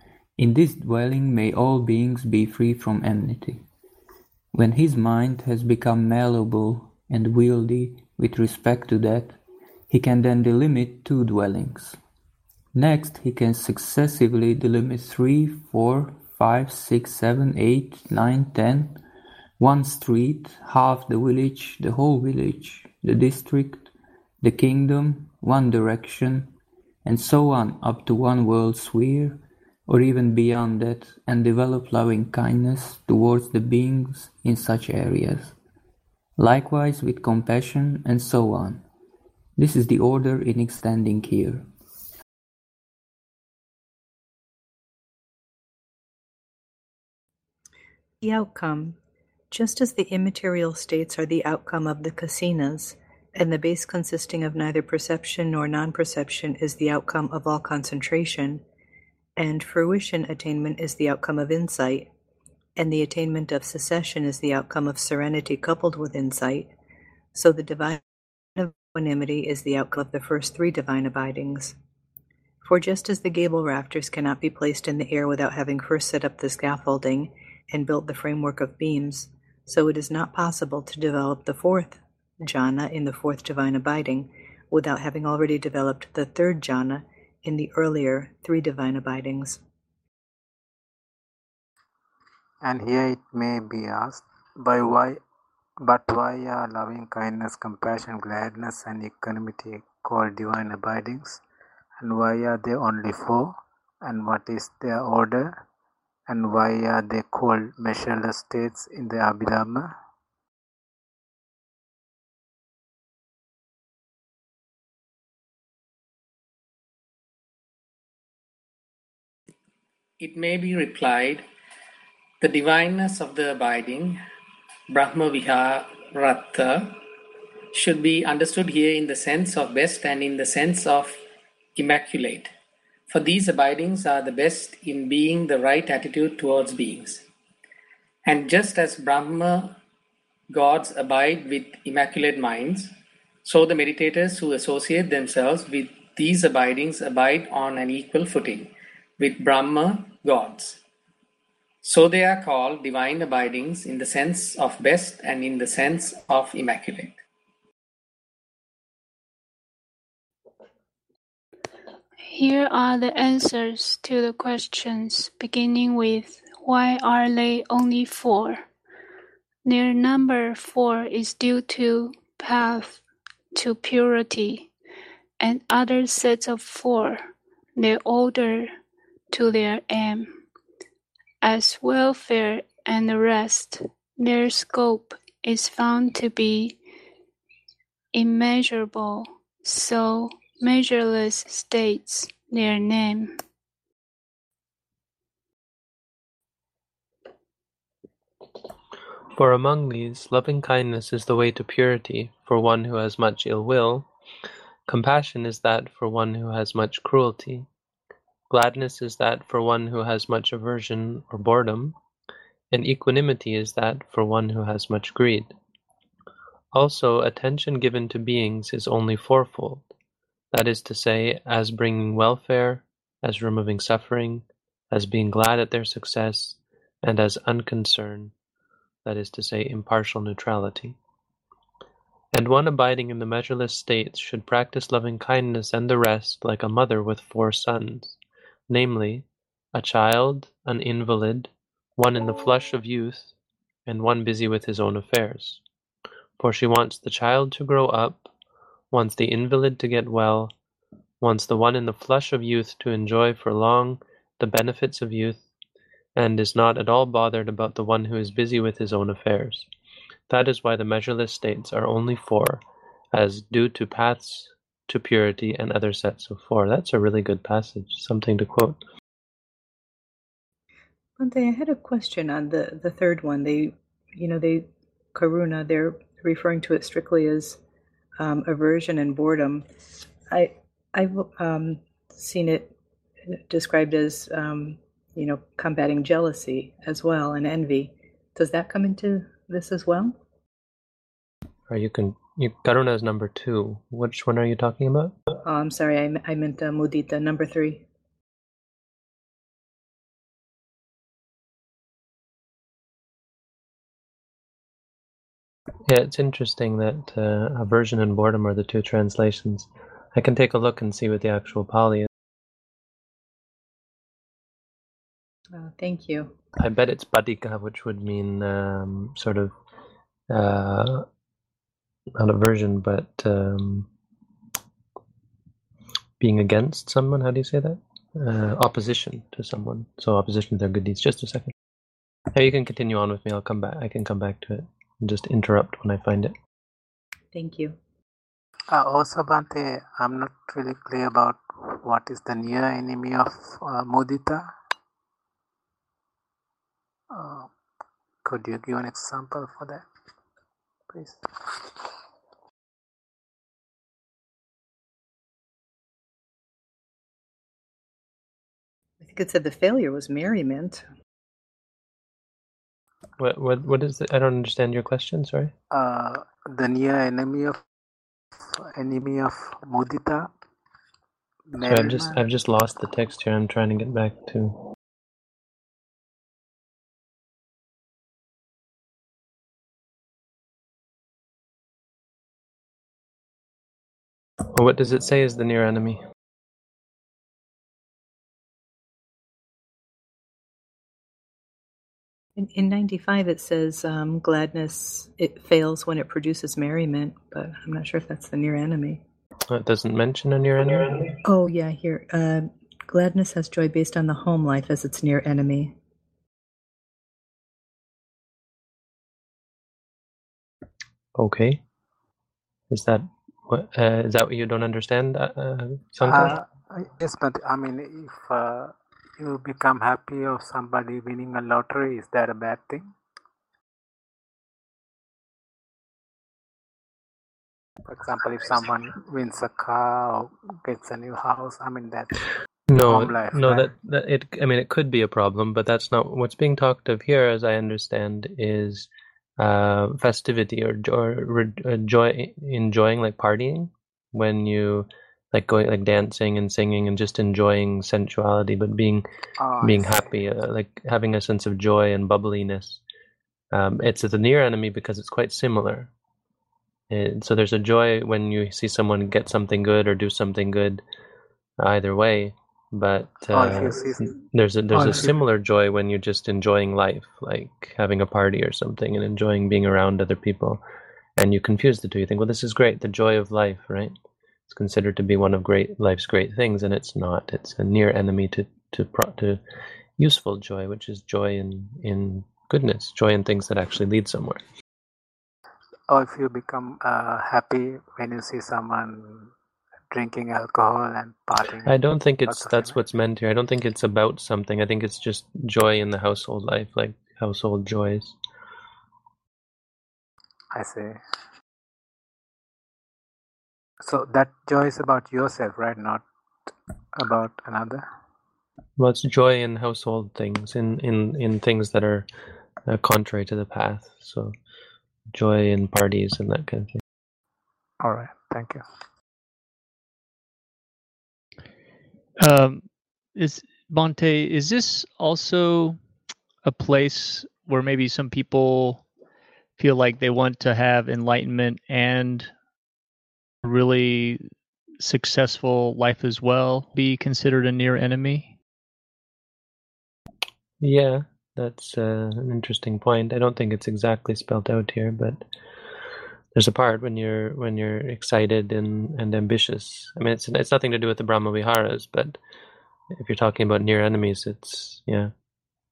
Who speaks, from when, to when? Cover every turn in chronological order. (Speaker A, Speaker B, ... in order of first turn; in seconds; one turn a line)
Speaker A: 0.4-3.6
Speaker A: 4.5-12.0
Speaker A: 12.7-19.0
Speaker A: 19.6-23.9
Speaker A: 24.4-26.5
Speaker A: 27.0-35.5
Speaker A: 36.4-38.8
Speaker A: 39.5-41.7
Speaker B: 48.2-49.0
Speaker B: 49.5-58.6
Speaker B: 59.4-62.1
Speaker B: 62.8-66.7
Speaker B: 67.3-68.0
Speaker B: 68.6-71.7
Speaker B: 72.6-89.6
Speaker C: 92.6-95.2
Speaker C: 95.8-101.4
Speaker C: 102.0-105.6
Speaker C: 106.3-109.9
Speaker D: 120.2-121.5
Speaker D: 122.4-124.2
Speaker D: 124.9-127.0
Speaker D: 127.7-131.2
Speaker D: 131.8-132.5
Speaker D: 133.1-137.2
Speaker D: 138.2-139.8
Speaker D: 140.5-142.9
Speaker D: 143.4-150.8
Speaker D: 151.8-157.2
Speaker E: 162.2-168.6
Speaker E: 169.6-173.0
Speaker E: 173.5-174.7
Speaker E: 175.4-178.7
Speaker E: 179.3-180.4
Speaker E: 181.4-186.8
Speaker E: 188.1-193.3
Speaker F: 199.3-204.1
Speaker F: 204.9-207.7
Speaker F: 208.5-212.0
Speaker F: 212.7-215.5
Speaker F: 216.7-219.9
Speaker F: 220.5-228.3
Speaker F: 229.0-231.0
Speaker F: 232.3-238.2
Speaker F: 238.7-243.3
Speaker F: 243.9-245.6
Speaker F: 246.4-248.3
Speaker F: 248.9-250.5
Speaker F: 251.2-255.4
Speaker F: 256.1-259.7
Speaker F: 260.3-262.6
Speaker F: 263.1-268.8
Speaker B: 271.2-277.6
Speaker B: 278.2-279.7
Speaker B: 280.3-282.7
Speaker B: 283.3-290.1
Speaker F: 291.7-295.2
Speaker B: 295.4-297.8
Speaker F: 305.9-312.1
Speaker B: 315.5-316.3
Speaker F: 316.6-319.5
Speaker F: 320.3-321.1
Speaker F: 322.2-323.9
Speaker F: 326.2-331.5
Speaker F: 332.3-336.3
Speaker B: 337.3-337.8
Speaker C: 338.7-344.5
Speaker C: 347.1-347.5
Speaker C: 348.2-349.8
Speaker C: 350.9-351.8
Speaker B: 359.0-360.8
Speaker F: 363.2-365.5
Speaker C: 365.7-367.6
Speaker C: 368.5-370.3
Speaker C: 371.5-372.2
Speaker F: 371.6-374.6
Speaker F: 384.5-386.0
Speaker B: 392.4-399.0
Speaker F: 399.5-401.2
Speaker B: 401.2-405.7
Speaker F: 411.1-411.6
Speaker F: 412.7-416.3
Speaker C: 416.1-422.9
Speaker C: 427.9-432.2
Speaker F: 432.7-438.9
Speaker C: 432.7-433.7
Speaker F: 439.4-449.0
Speaker C: 449.4-450.0
Speaker F: 449.6-452.8
Speaker F: 453.5-455.9
Speaker F: 456.9-460.8
Speaker F: 461.6-470.6
Speaker C: 463.3-464.1
Speaker C: 464.7-465.1
Speaker F: 471.2-473.9
Speaker F: 474.5-479.4
Speaker F: 480.0-484.4
Speaker C: 485.9-489.3
Speaker C: 489.9-492.8
Speaker F: 491.6-498.1
Speaker C: 500.5-501.0
Speaker C: 503.8-506.0
Speaker C: 506.9-507.9
Speaker F: 508.8-512.1
Speaker F: 512.6-514.3
Speaker F: 515.1-516.8
Speaker C: 517.8-518.6
Speaker G: 522.2-525.8
Speaker G: 526.4-528.8
Speaker G: 529.6-532.3
Speaker G: 533.4-534.2
Speaker G: 534.8-538.3
Speaker F: 540.6-545.2
Speaker F: 546.3-552.2
Speaker F: 552.9-555.1